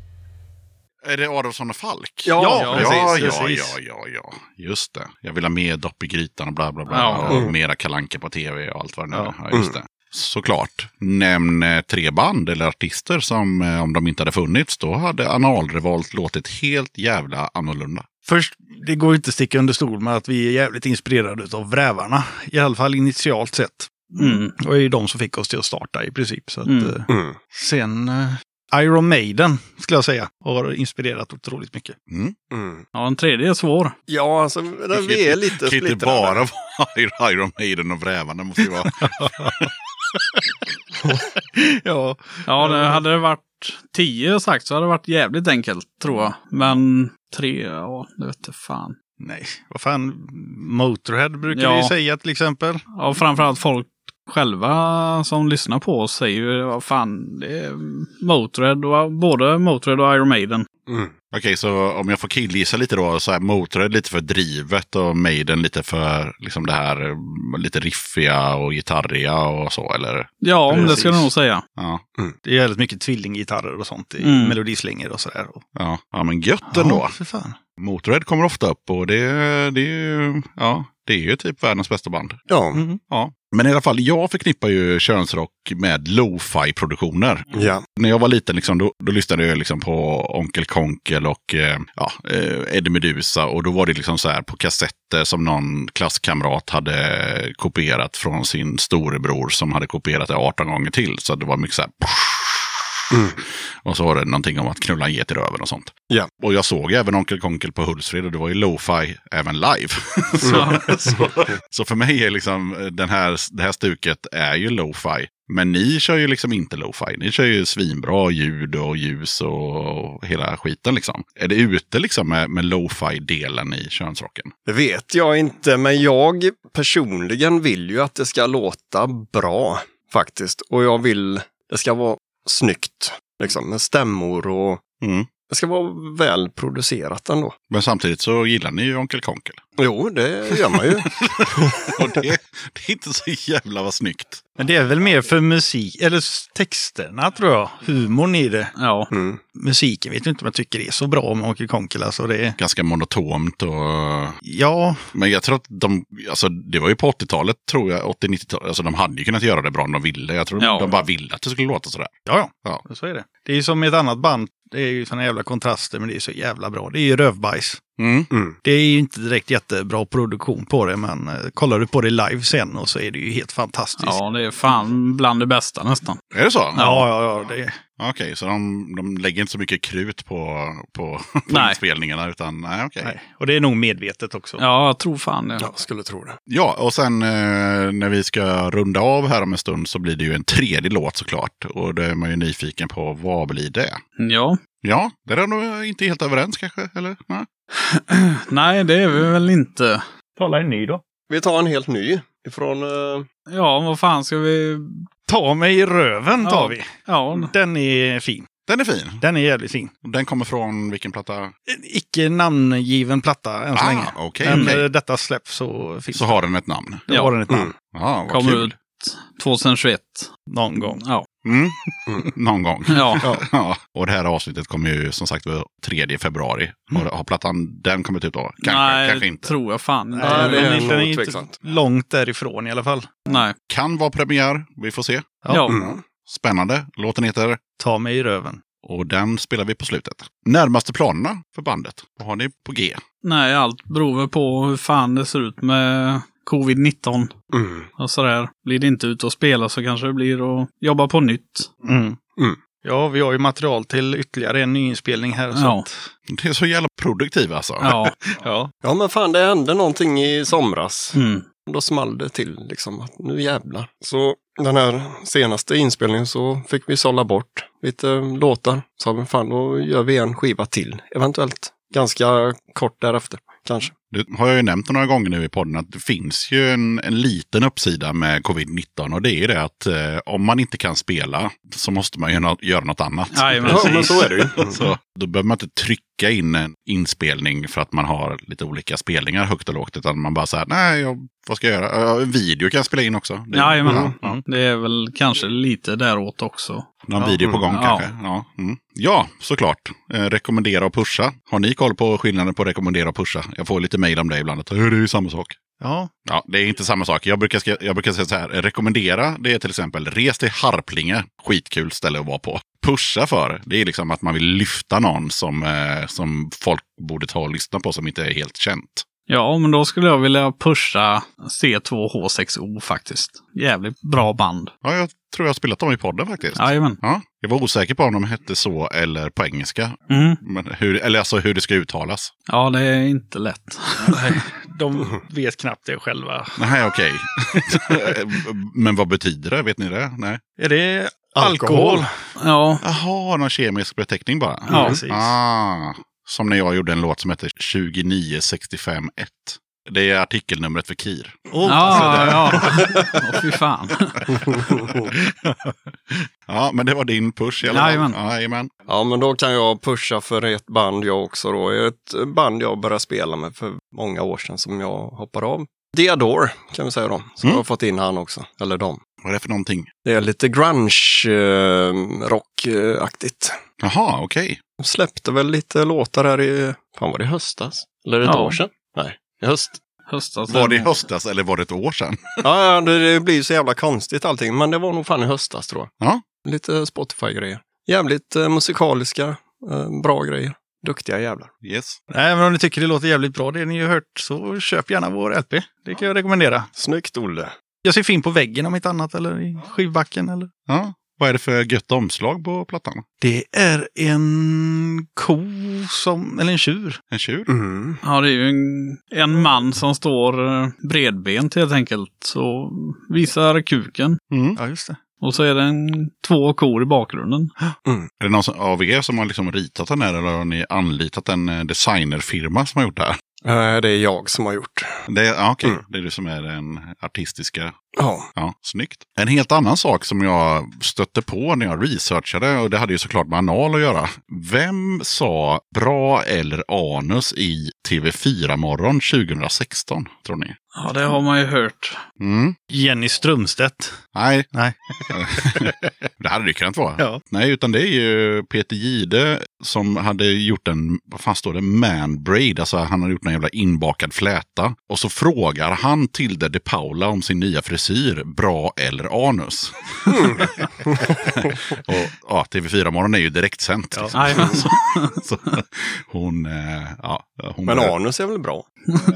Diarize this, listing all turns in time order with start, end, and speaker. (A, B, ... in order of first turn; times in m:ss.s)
0:01.0-0:18.1 A
0:02.2-0:03.3 B
0:02.4-0:03.7 C
0:06.9-0:07.4 D
0:07.3-0:07.5 B
0:18.2-0:32.0 C
0:24.2-0:24.6 D
0:26.6-0:27.0 D
0:27.1-0:27.4 B
0:32.1-0:32.4 A
0:32.5-0:32.9 B
0:33.0-0:34.0 D
0:34.1-0:36.4 B
0:34.9-0:39.7 A
0:39.0-0:39.5 C
0:41.1-0:43.0 C
0:42.5-0:49.0 D
0:49.2-0:52.8 C
0:51.5-0:51.9 D
0:52.9-1:00.7 D
1:00.9-1:01.1 B
1:01.3-1:11.0 A
1:10.4-1:11.6 D
1:10.7-1:11.3 C
1:11.8-1:12.0 A
1:12.4-1:15.6 C
1:14.2-1:14.6 D
1:15.8-1:17.2 A
1:16.7-1:17.6 C
1:17.8-1:22.4 A
1:22.5-1:22.8 B
1:22.7-1:23.0 C
1:23.1-1:42.8 A
1:27.5-1:27.8 B
1:43.4-2:04.5 A
1:50.4-1:51.2 B
1:50.5-1:51.1 D
2:04.7-2:14.8 B
2:15.0-2:15.3 A
2:15.5-2:17.6 B
2:17.7-2:19.6 A
2:19.8-2:21.1 B
2:21.2-2:24.4 A
2:24.6-2:28.7 C
2:28.8-2:29.1 D
2:29.1-2:29.4 B
2:29.6-2:32.6 C
2:32.6-2:34.4 A
2:34.4-2:35.1 C
2:35.1-2:42.8 A
2:40.6-2:41.0 D
2:42.3-2:47.9 C
2:48.0-2:48.3 A
2:48.3-2:48.6 B
2:48.6-2:54.2 C
2:54.0-2:56.2 D
2:56.3-2:57.1 A
2:56.8-2:57.8 C
2:58.0-3:03.2 A
3:01.5-3:01.8 D
3:03.0-3:04.6 C
3:04.6-3:05.7 D
3:05.6-3:06.4 B
3:06.5-3:14.0 A
3:14.2-3:14.6 D
3:14.8-3:17.5 A
3:17.8-3:20.1 D
3:20.4-3:21.0 C
3:21.3-3:23.3 B
3:23.5-3:25.1 D
3:25.3-3:28.5 C
3:26.4-3:27.5 D
3:28.7-3:29.2 A
3:29.2-3:29.9 C
3:30.0-3:31.5 A
3:31.7-3:36.4 C
3:33.8-3:34.9 A
3:34.5-3:34.8 D
3:36.1-3:37.1 A
3:37.1-3:37.8 C
3:37.1-3:37.4 D
3:37.9-3:38.7 A
3:38.3-3:41.3 D
3:40.5-3:41.0 C
3:41.4-3:49.5 A
3:42.9-3:43.2 D
3:48.6-3:50.9 D
3:50.2-3:53.2 C
3:50.2-3:51.6 B
3:53.3-3:53.6 D
3:53.7-3:55.4 A
3:55.5-3:55.8 D
3:55.7-3:56.0 B
3:56.3-3:57.6 A
3:57.8-3:58.6 C
3:58.8-4:03.0 A
4:03.2-4:07.4 D
4:07.5-4:07.9 B
4:08.0-4:11.7 D
4:11.8-4:12.2 C
4:12.8-4:16.1 C
4:15.5-4:15.9 D
4:16.3-4:17.9 A
4:17.8-4:18.2 D
4:17.8-4:18.7 C
4:18.8-4:33.9 B
4:21.1-4:21.4 D
4:34.1-4:54.4 A
4:43.3-4:44.2 D
4:43.6-4:44.8 B
4:53.5-4:56.9 D
4:53.8-4:54.1 B
4:57.1-5:05.6 A
4:57.2-4:57.5 C
4:57.7-4:58.1 D
5:05.8-5:06.1 C
5:06.3-5:19.1 A
5:19.3-5:24.7 D
5:24.8-5:32.3 A
5:26.6-5:27.0 D
5:30.1-5:30.4 D
5:32.5-5:34.4 D
5:34.1-5:36.6 C
5:36.6-5:40.4 A
5:40.6-5:42.1 C
5:41.4-5:42.1 B
5:42.4-5:42.8 D
5:42.8-5:52.6 A
5:44.7-5:45.0 B
5:44.7-5:45.3 C
5:51.5-5:53.1 C
5:51.7-5:54.2 D
5:54.4-5:55.0 B
5:55.2-5:55.8 C
5:56.5-5:58.7 A
5:57.7-5:58.2 D
5:58.9-6:09.0 B
6:09.2-6:09.9 A
6:10.0-6:13.6 B
6:13.8-6:14.6 A
6:14.8-6:19.8 B
6:18.2-6:18.6 D
6:20.1-6:20.9 D
6:20.5-6:22.4 A
6:22.4-6:25.9 B
6:26.4-6:31.5 B
6:31.6-6:32.0 A
6:32.1-6:36.7 C
6:36.8-6:37.5 B
6:37.8-6:40.5 C
6:40.7-6:43.0 A
6:43.2-6:47.0 C
6:47.1-6:47.5 A
6:47.5-6:48.0 B
6:48.0-6:54.2 D
6:54.3-6:54.6 A
6:54.6-6:55.0 C
6:55.2-6:57.5 D
6:58.2-7:03.2 A
7:03.4-7:05.0 B
7:05.1-7:07.8 A
7:08.0-7:08.3 B
7:08.4-7:20.6 A
7:20.8-7:22.0 D
7:22.2-7:22.6 A
7:22.7-7:24.0 C
7:24.1-7:24.5 A
7:24.5-7:25.8 C
7:25.1-7:40.7 A
7:40.1-7:41.1 B
7:41.2-7:48.0 A
7:44.2-7:45.2 D
7:47.7-7:48.7 B